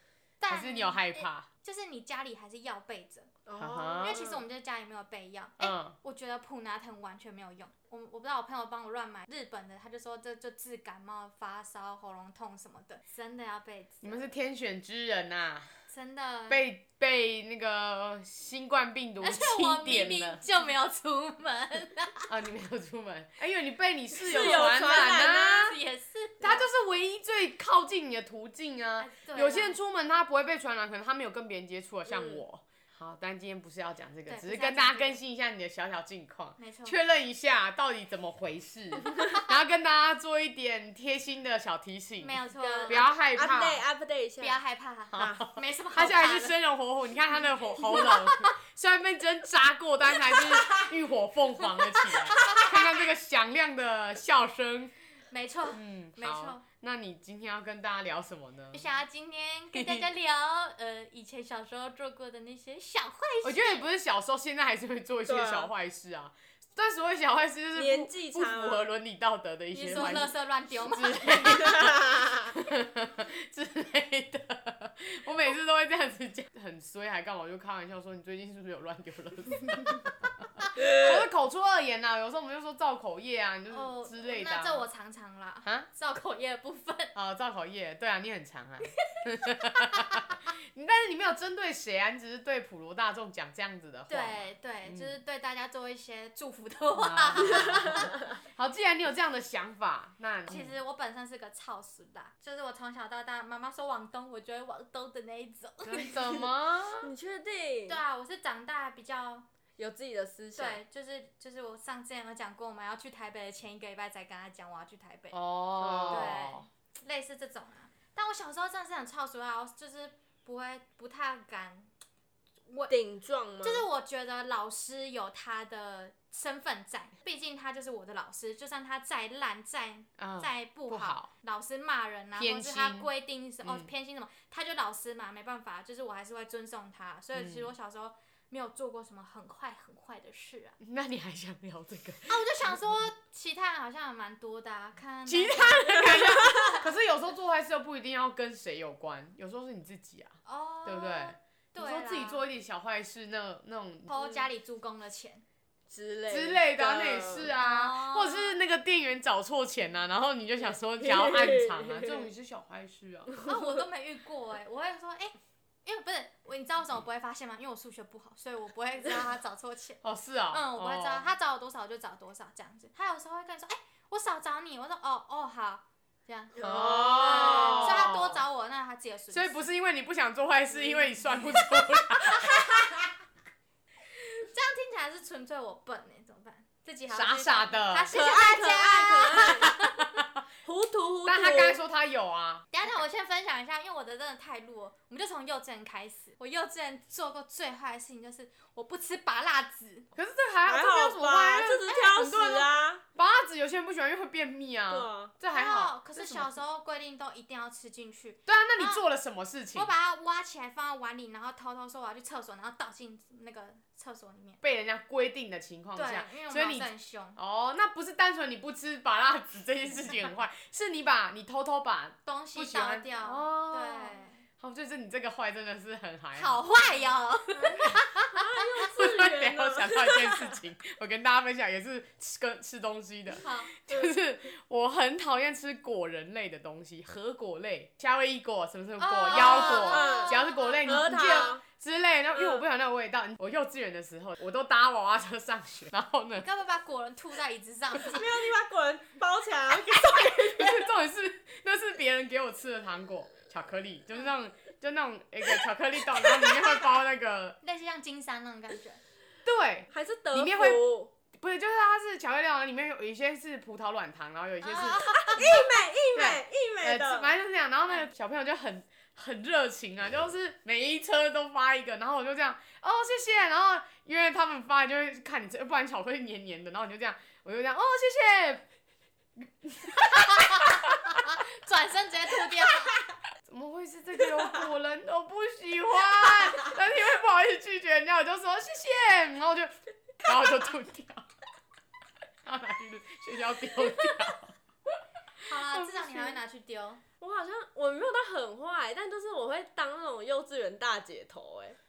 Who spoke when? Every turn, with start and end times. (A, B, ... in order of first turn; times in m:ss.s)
0:00.4-0:03.3 A
0:00.5-0:01.5 B
0:03.5-0:04.4 C
0:03.6-0:04.2 B
0:04.0-0:14.3 A
0:05.6-0:06.0 B
0:14.0-0:15.7 B
0:15.9-0:16.7 A
0:16.5-0:20.4 B
0:19.2-0:22.3 A
0:22.3-0:25.8 B
0:24.2-0:25.8 C
0:24.4-0:26.7 A
0:26.4-0:43.8 B
0:29.0-0:29.8 A
0:32.1-0:32.4 C
0:34.3-0:35.2 A
0:36.6-0:37.0 A
0:42.2-0:43.0 A
0:42.6-0:44.6 C
0:44.4-0:46.6 A
0:45.1-0:54.9 B
0:45.2-0:45.4 C
0:47.9-0:48.4 A
0:52.2-0:53.0 A
0:55.3-0:56.6 A
0:55.7-0:58.9 B
0:58.7-1:03.9 A
0:59.7-1:00.1 B
1:03.4-1:24.9 B
1:05.3-1:05.7 C
1:07.8-1:08.9 C
1:09.7-1:11.8 A
1:09.8-1:10.2 C
1:11.7-1:12.5 C
1:20.8-1:21.2 C
1:23.7-1:27.1 A
1:27.2-1:35.1 B
1:29.8-1:30.2 A
1:34.1-1:38.1 A
1:37.0-1:40.8 B
1:37.6-1:38.3 C
1:40.5-1:46.2 A
1:46.0-1:47.1 B
1:47.0-1:48.0 C
1:47.9-1:49.5 A
1:49.8-1:50.8 C
1:50.6-1:55.4 A
1:55.3-1:56.7 B
1:55.8-1:56.4 C
1:56.1-2:01.9 A
2:02.7-2:02.9 A
2:02.9-2:03.9 C
2:03.6-2:20.8 A
2:10.2-2:11.3 B
2:12.4-2:13.1 B
2:13.6-2:13.9 B
2:17.4-2:17.7 B
2:20.8-2:23.0 B
2:22.3-2:26.9 A
2:25.3-2:34.1 B
2:30.4-2:32.4 A
2:34.1-2:35.4 A
2:34.1-2:34.4 C
2:35.9-2:37.5 C
2:36.3-2:43.3 B
2:37.5-2:38.6 A
2:40.7-2:42.3 C
2:43.4-2:45.3 A
2:45.8-2:59.6 A
2:50.0-2:51.3 B
2:56.6-2:58.1 C
2:56.6-2:58.4 B
2:59.3-3:02.6 B
3:01.5-3:02.9 A
3:04.4-3:10.0 A
3:07.1-3:08.1 B
3:08.1-3:09.8 C
3:09.8-3:10.2 B
3:10.6-3:11.8 C
3:11.2-3:12.7 B
3:12.7-3:20.1 A
3:20.2-3:26.6 B
3:20.7-3:23.0 C
3:21.9-3:22.4 A
3:24.9-3:25.3 C
3:25.5-3:29.0 A
3:28.5-3:29.9 B
3:29.7-3:34.6 A
3:34.6-3:46.6 B
3:36.0-3:37.4 A
3:42.2-3:44.4 A
3:46.4-3:48.7 A
3:48.3-3:50.6 C
3:49.0-4:06.5 B
3:53.4-3:53.7 A
3:53.9-3:54.1 C
3:59.0-4:01.4 A
3:59.3-4:01.6 C
4:02.4-4:02.6 C
4:06.4-4:08.3 A
4:08.1-4:10.9 C
4:10.1-4:17.6 B
4:17.6-4:19.0 A
4:19.4-4:25.6 B
4:19.9-4:21.1 C
4:24.6-4:25.7 A
4:24.8-4:27.3 C
4:26.2-4:38.7 B
4:39.4-4:41.2 B
4:40.1-4:43.0 A
4:43.4-4:51.3 B
4:52.4-4:54.6 B
4:53.9-4:54.2 C
4:55.4-4:57.0 A
4:55.6-4:56.4 B
4:57.2-5:01.8 C